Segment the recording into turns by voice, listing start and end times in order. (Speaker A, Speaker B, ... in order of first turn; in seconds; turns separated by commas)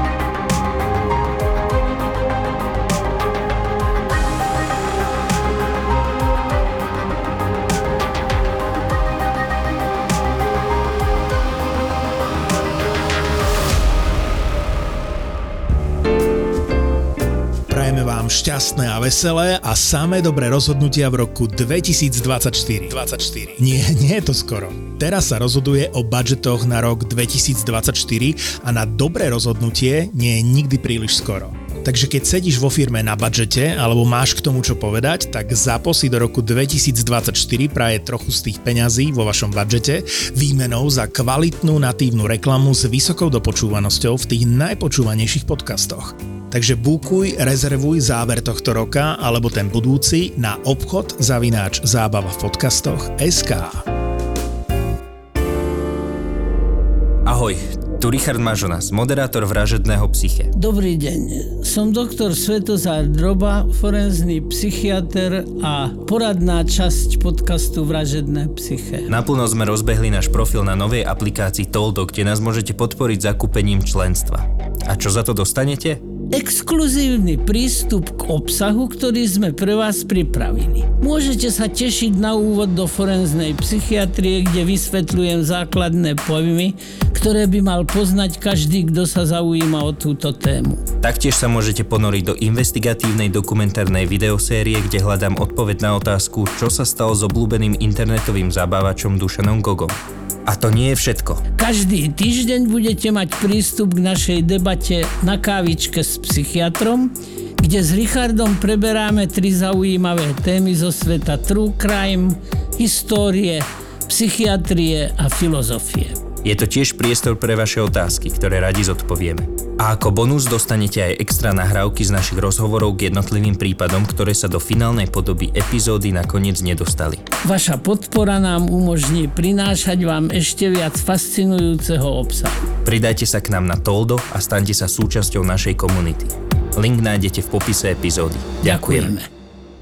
Speaker A: 17.7-53.8, Speaker B: 57.2-60.5, Speaker C: 60.6-69.1, Speaker B: 69.1-76.0, Speaker C: 76.3-90.8, Speaker B: 91.0-101.4, Speaker C: 101.6-116.2, Speaker B: 116.4-127.2, Speaker C: 127.4-132.6, Speaker B: 132.8-139.1, Speaker C: 138.6-139.3